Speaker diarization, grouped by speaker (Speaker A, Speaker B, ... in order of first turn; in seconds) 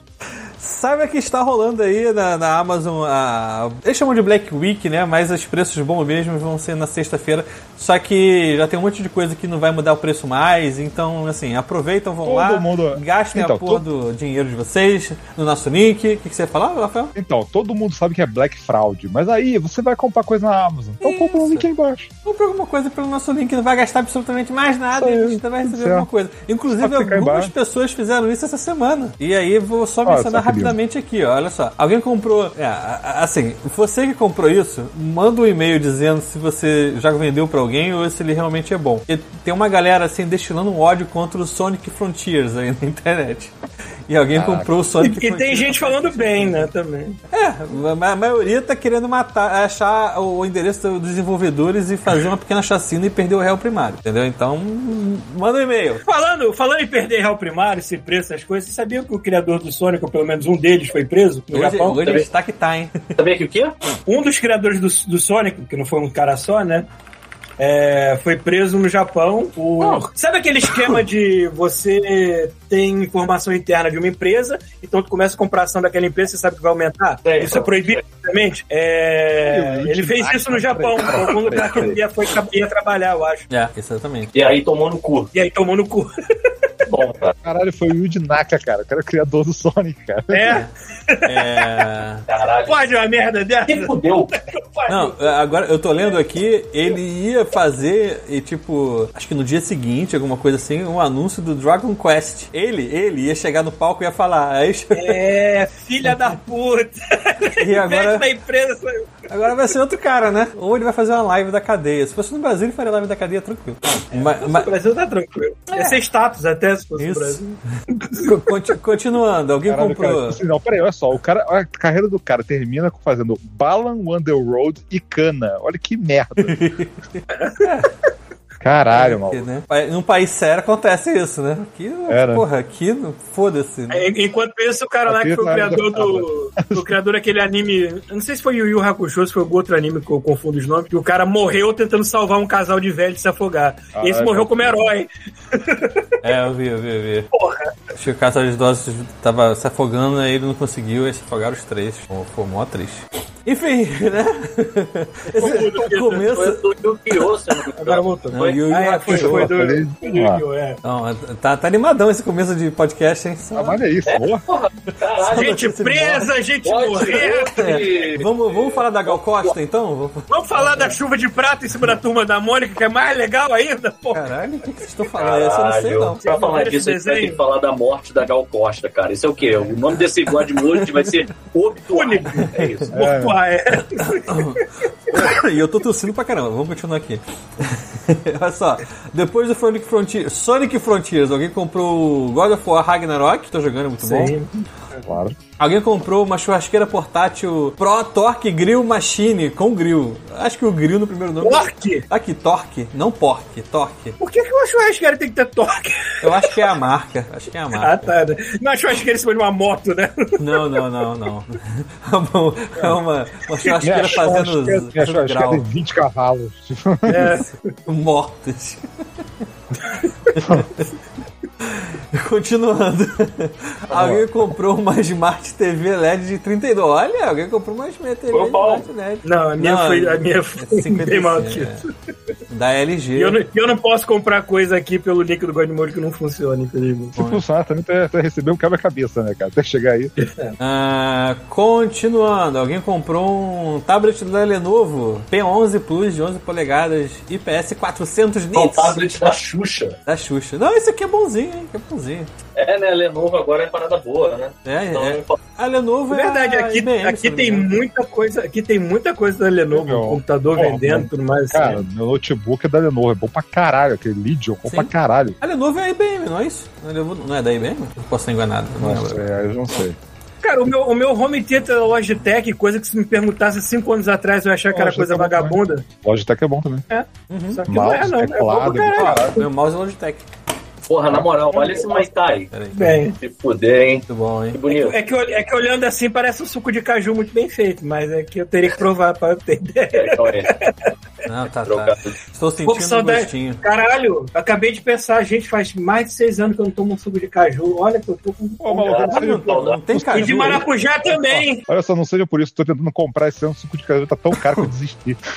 Speaker A: 0.6-17.1, 21.0-21.7, 22.2-43.5, 44.1-46.7, 47.3-56.0, 61.5-63.1, 83.5-84.3, 91.2-92.2, 94.9-105.2, 107.6-108.3, 109.3-114.7, 115.7-116.0, 117.0-117.4, 118.2-120.4, 126.4-127.9, 128.9-134.1, 146.2-147.3, 147.9-156.6, 158.3-159.5, 160.8-163.8, 165.2-166.3, 167.5-170.9, 174.1-176.2, 180.6-181.1, 184.0-194.3, 195.6-204.2, 206.2-208.1, 210.4-215.7, 217.8-218.8, 220.3-220.9, 221.6-231.8, 232.5-233.4, 237.2-237.4, 240.6-249.0, 250.1-252.3, 254.7-257.7, 264.6-269.3, 277.3-277.6, 278.9-280.3, 282.5-283.0, 284.1-284.6, 291.2-293.6, 299.1-300.7
Speaker B: 12.2-13.8, 17.1-22.1, 24.9-26.1, 26.7-27.5, 30.1-30.8, 44.3-44.7, 79.4-82.0, 87.4-90.6, 119.7-126.6, 128.6-129.4, 132.1-132.4, 135.1-136.9, 143.9-144.9, 159.1-160.4, 163.6-164.4, 182.9-183.4, 195.1-195.4, 213.8-217.3, 223.9-224.3, 237.2-240.1, 259.7-265.4, 268.8-270.0, 274.7-276.9, 277.7-279.4, 298.6-300.6, 301.7-305.2
Speaker C: 45.0-47.2, 56.0-62.0, 64.1-66.9, 67.6-83.5, 85.3-86.1, 90.3-91.7, 92.7-95.3, 105.0-109.1, 114.1-118.3, 127.3-127.7, 133.9-146.1, 147.3-147.7, 155.3-156.3, 157.7-160.8, 165.3-167.5, 170.3-174.3, 176.2-177.4, 181.9-184.4, 194.0-194.7, 201.4-202.1, 204.2-206.6, 207.7-210.6, 217.1-217.5, 229.2-231.9, 233.2-237.2, 240.2-240.6, 256.1-261.8, 270.4-275.9, 276.9-279.4, 281.5-282.0, 282.7-283.2, 284.7-290.9, 292.6-299.2, 300.1-301.6
Speaker D: 62.0-62.3, 63.2-63.7, 69.8-70.1, 77.2-78.0, 84.3-85.3, 86.9-87.3, 92.3-92.8, 93.7-94.3, 156.1-158.6, 164.1-165.6, 166.6-169.5, 175.1-182.9, 228.3-228.8, 248.6-250.0, 252.6-255.4, 280.8-282.5, 283.2-285.0, 289.9-290.5, 291.7-292.2, 298.8-299.8